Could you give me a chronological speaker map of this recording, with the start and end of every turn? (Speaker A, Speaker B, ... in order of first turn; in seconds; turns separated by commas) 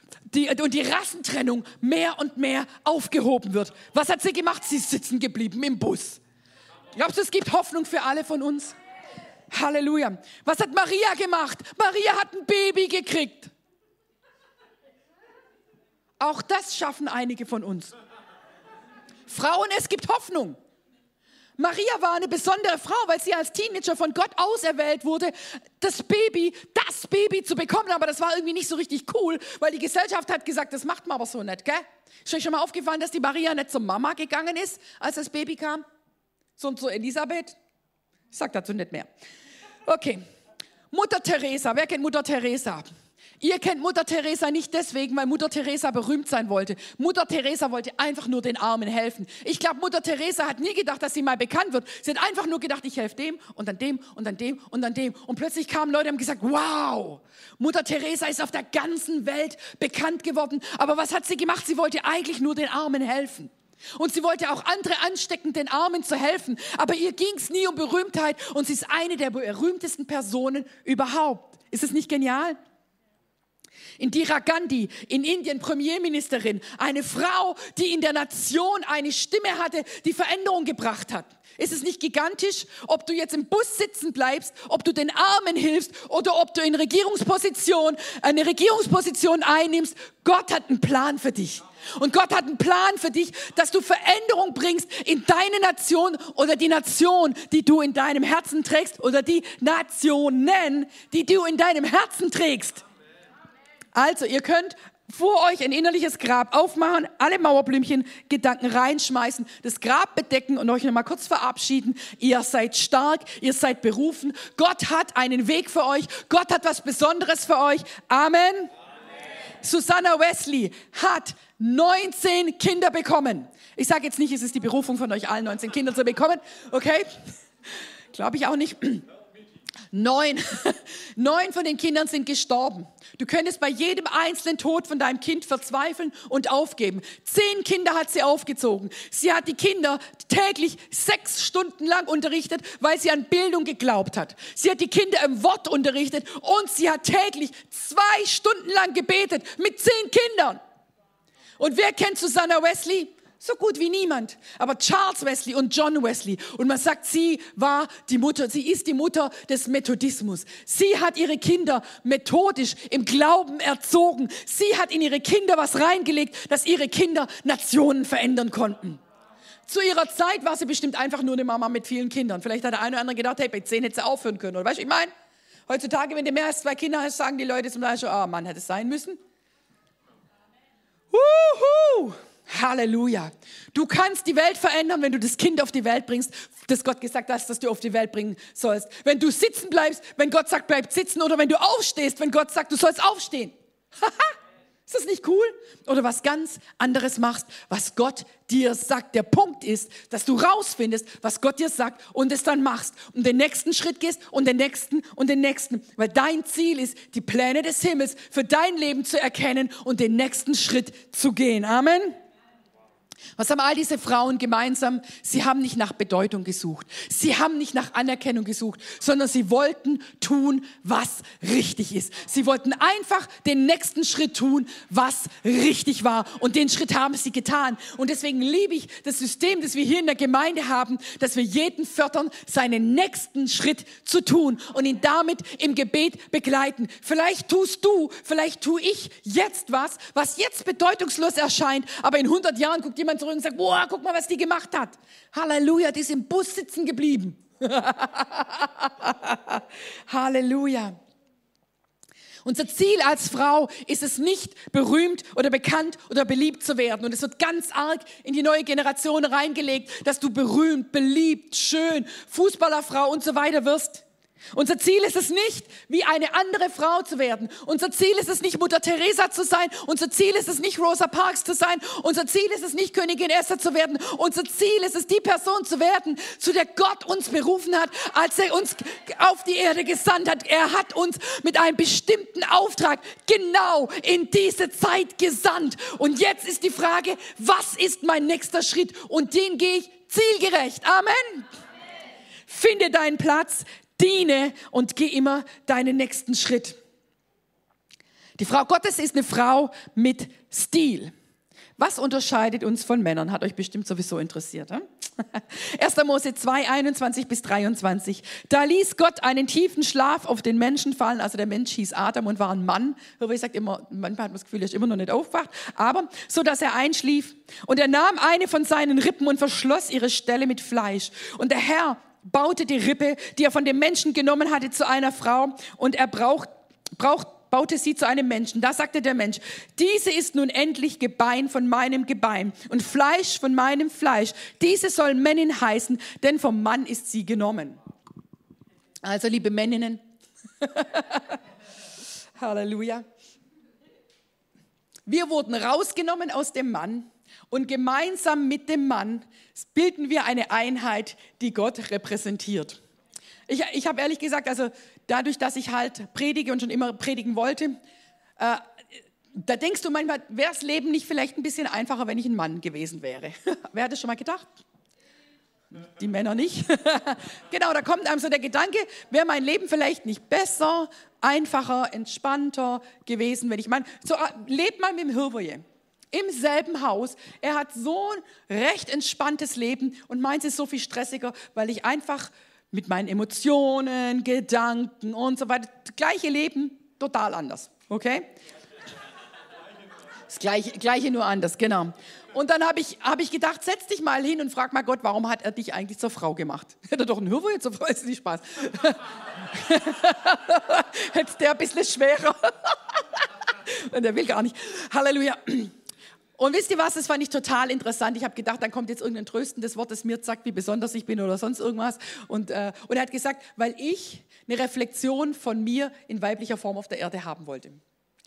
Speaker A: 0.3-6.2, Speaker A: 7.0-8.8, Speaker A: 9.5-13.5, Speaker A: 16.2-17.9, Speaker A: 19.3-20.6, Speaker A: 21.6-35.8, Speaker A: 36.6-37.6, Speaker A: 38.3-39.1, Speaker A: 39.9-40.2, Speaker A: 40.9-42.9, Speaker A: 43.4-72.6, Speaker A: 74.0-102.8, Speaker A: 103.9-118.7, Speaker A: 119.6-127.1, Speaker A: 128.1-129.0, Speaker A: 129.9-150.6, Speaker A: 151.6-169.0, Speaker A: 169.7-175.1, Speaker A: 175.7-179.2, Speaker A: 181.1-194.3, Speaker A: 194.9-212.1, Speaker A: 213.4-250.9, Speaker A: 252.4-291.4, Speaker A: 292.5-296.8, Speaker A: 298.4-301.1, Speaker A: 301.8-337.8, Speaker A: 339.0-340.0, Speaker A: 340.6-341.4, Speaker A: 342.4-343.1, Speaker A: 345.1-352.8, Speaker A: 353.5-357.8, Speaker A: 359.3-364.5, Speaker A: 365.7-388.3, Speaker A: 390.3-405.7, Speaker A: 406.4-417.8